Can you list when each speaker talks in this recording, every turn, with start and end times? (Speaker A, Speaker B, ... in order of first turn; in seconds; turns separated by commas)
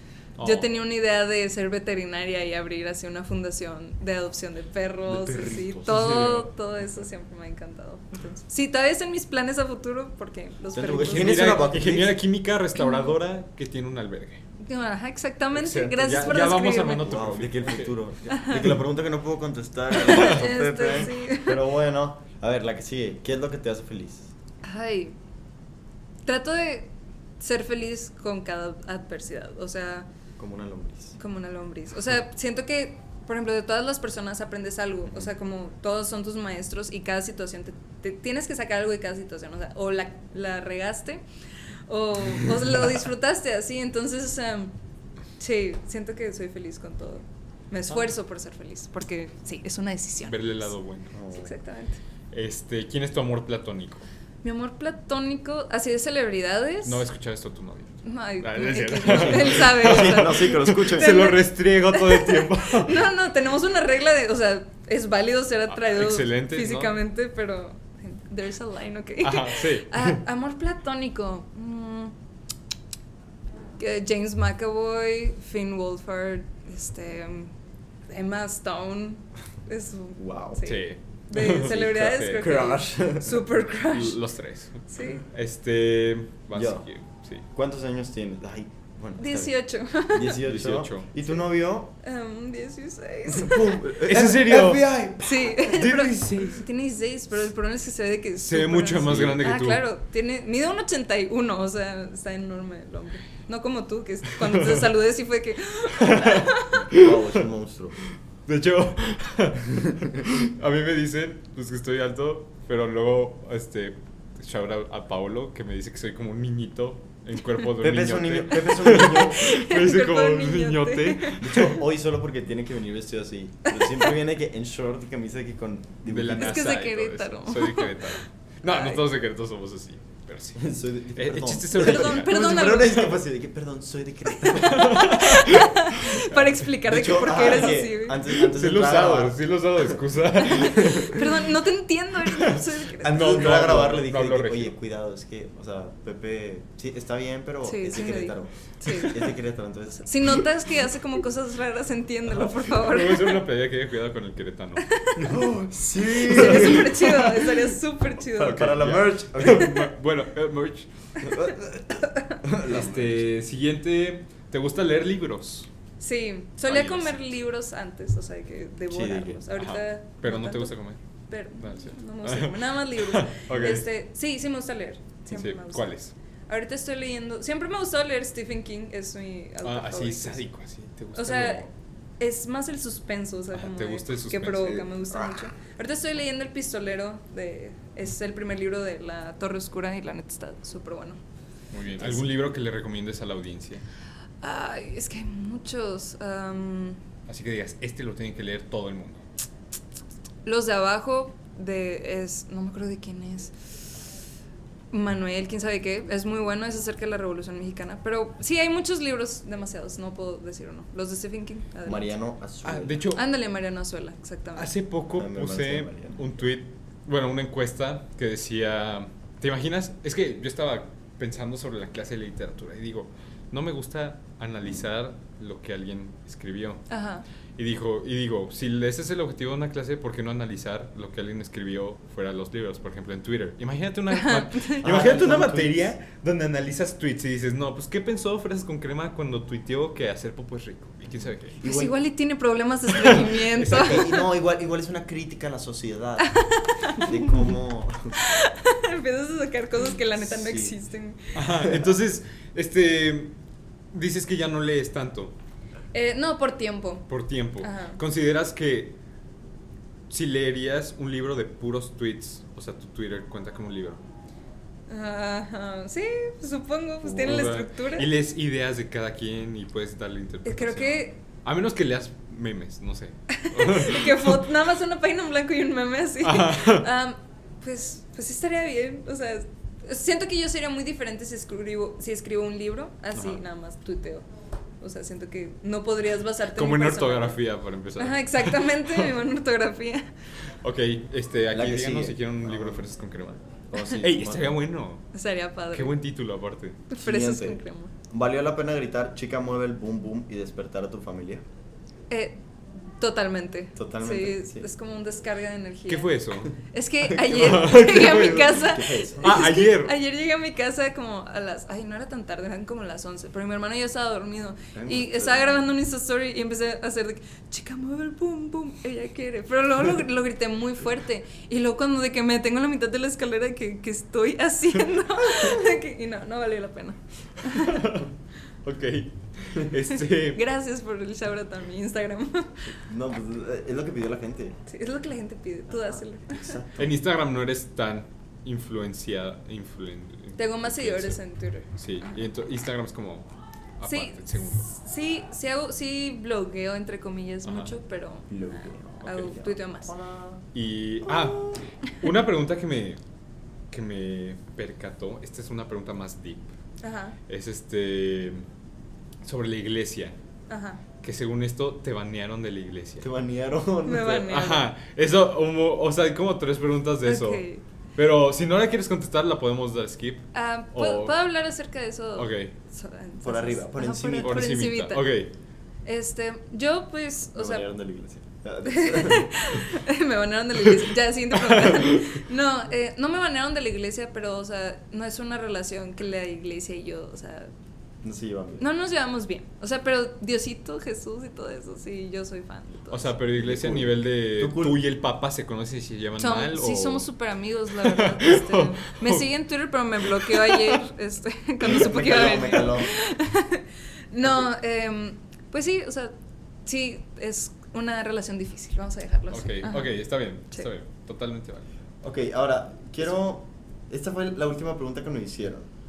Speaker A: 0.4-0.7, Speaker B: 0.4-11.7, Speaker A: 5.1-6.5, Speaker C: 5.3-5.6, Speaker C: 10.7-12.2, Speaker A: 11.0-14.4, Speaker B: 12.8-13.2, Speaker B: 14.6-17.1, Speaker A: 15.5-18.0, Speaker C: 17.0-24.3, Speaker B: 18.3-18.7, Speaker B: 19.9-21.6, Speaker B: 24.6-25.2, Speaker B: 26.2-30.1, Speaker C: 30.4-31.2, Speaker B: 31.2-41.2, Speaker B: 41.9-44.7, Speaker B: 45.4-50.7, Speaker A: 50.2-51.1, Speaker C: 51.1-51.5, Speaker B: 51.3-52.0, Speaker A: 52.3-54.1, Speaker B: 54.4-57.0, Speaker A: 56.8-63.1, Speaker B: 58.0-72.1, Speaker C: 59.1-61.3, Speaker A: 65.7-67.0, Speaker A: 69.2-70.2, Speaker B: 73.8-77.5, Speaker B: 78.1-84.2, Speaker C: 80.2-80.7, Speaker A: 80.6-82.6, Speaker C: 81.7-83.5, Speaker A: 83.9-87.4, Speaker B: 84.9-85.2, Speaker C: 86.5-86.8, Speaker C: 87.5-89.5, Speaker B: 89.2-90.4, Speaker C: 90.1-91.9, Speaker A: 90.4-91.1, Speaker B: 92.0-93.8, Speaker C: 93.3-95.6, Speaker A: 94.0-96.7, Speaker B: 95.2-106.8, Speaker A: 98.4-99.8, Speaker A: 104.4-104.8, Speaker A: 106.0-107.2, Speaker C: 106.9-108.0, Speaker A: 108.5-121.8, Speaker C: 117.8-119.5, Speaker B: 118.9-121.6, Speaker C: 121.4-126.6, Speaker B: 123.7-124.1, Speaker A: 126.1-133.0, Speaker B: 126.3-129.0, Speaker C: 130.6-135.1, Speaker B: 131.8-133.2, Speaker B: 134.3-138.2, Speaker A: 134.6-136.2, Speaker C: 136.4-140.0, Speaker A: 138.3-141.2, Speaker B: 140.4-143.4, Speaker C: 140.6-141.2, Speaker A: 142.2-144.8, Speaker C: 143.0-150.4, Speaker B: 147.6-149.3, Speaker B: 150.0-153.4, Speaker A: 152.6-155.3, Speaker B: 154.8-155.2, Speaker C: 155.2-157.1, Speaker B: 156.2-158.8, Speaker A: 156.3-157.5, Speaker C: 158.4-159.8, Speaker A: 158.4-161.3, Speaker B: 159.5-159.8, Speaker C: 161.2-163.2, Speaker B: 162.1-162.4, Speaker A: 162.6-165.7, Speaker B: 166.0-170.8, Speaker A: 166.7-167.2, Speaker C: 168.9-169.4, Speaker A: 169.6-171.0, Speaker B: 171.3-176.0, Speaker A: 171.6-173.9, Speaker A: 175.3-176.1, Speaker B: 176.5-180.4, Speaker A: 179.6-181.7, Speaker B: 181.2-181.7, Speaker B: 182.2-191.2, Speaker A: 183.5-184.9, Speaker A: 191.7-193.8, Speaker B: 194.4-197.0, Speaker A: 197.3-199.2, Speaker B: 200.4-203.5, Speaker B: 204.9-212.2, Speaker C: 211.8-213.0, Speaker A: 212.6-213.2, Speaker B: 213.1-214.7, Speaker A: 214.6-226.8, Speaker C: 215.1-216.2, Speaker B: 226.9-227.2, Speaker A: 227.6-241.6, Speaker B: 234.1-234.8, Speaker C: 234.8-235.9, Speaker C: 241.6-241.9, Speaker B: 241.6-244.2, Speaker A: 243.0-244.1, Speaker C: 243.7-246.4, Speaker B: 246.2-247.3, Speaker C: 247.0-248.2, Speaker B: 248.2-251.3, Speaker C: 250.2-250.8, Speaker A: 251.3-253.4, Speaker A: 253.9-255.3, Speaker B: 255.9-257.1, Speaker A: 257.1-259.0, Speaker B: 257.6-258.0, Speaker A: 260.1-264.0, Speaker B: 264.9-268.1, Speaker A: 267.0-274.4, Speaker B: 270.4-271.2, Speaker B: 273.4-284.3, Speaker A: 276.2-276.9, Speaker A: 283.1-283.4, Speaker B: 284.8-287.4, Speaker A: 286.6-289.1, Speaker B: 288.0-290.1, Speaker A: 290.6-295.0, Speaker C: 291.5-292.9, Speaker C: 293.7-294.6, Speaker B: 295.1-296.0, Speaker A: 295.7-296.8, Speaker B: 296.9-297.9, Speaker C: 297.0-301.4, Speaker B: 302.1-302.4, Speaker B: 303.0-328.0, Speaker C: 303.8-304.7, Speaker A: 305.9-306.5, Speaker C: 307.0-309.6, Speaker A: 307.3-308.6, Speaker A: 309.2-309.9, Speaker C: 314.8-315.7, Speaker A: 327.4-328.1, Speaker A: 328.6-330.4, Speaker B: 330.3-332.7, Speaker C: 332.7-334.6, Speaker B: 334.7-336.6, Speaker C: 335.7-336.9, Speaker A: 336.8-343.3, Speaker B: 340.4-342.1, Speaker A: 343.8-344.6, Speaker B: 343.9-349.9, Speaker A: 347.4-347.7, Speaker C: 348.3-350.4, Speaker A: 349.0-349.3, Speaker A: 350.5-353.0, Speaker C: 351.1-351.5, Speaker A: 353.7-356.5, Speaker B: 356.8-357.2, Speaker A: 357.3-358.5, Speaker A: 359.2-360.2, Speaker B: 360.5-360.8, Speaker A: 361.0-363.1, Speaker C: 363.0-364.4, Speaker B: 363.9-364.7, Speaker A: 364.3-367.4, Speaker B: 367.0-367.6, Speaker A: 368.0-371.2, Speaker B: 370.3-375.1, Speaker A: 372.1-372.5, Speaker C: 373.2-374.4, Speaker A: 374.2-375.3, Speaker B: 375.9-377.7, Speaker C: 377.4-379.6, Speaker B: 378.6-387.5, Speaker A: 381.4-382.1, Speaker C: 388.0-388.6, Speaker B: 388.6-393.2, Speaker A: 392.9-397.1, Speaker C: 393.4-394.8, Speaker B: 396.2-406.1, Speaker A: 397.8-399.2, Speaker A: 400.2-400.8, Speaker C: 401.6-403.0, Speaker B: 406.7-410.0, Speaker A: 409.3-411.7, Speaker C: 412.0-415.7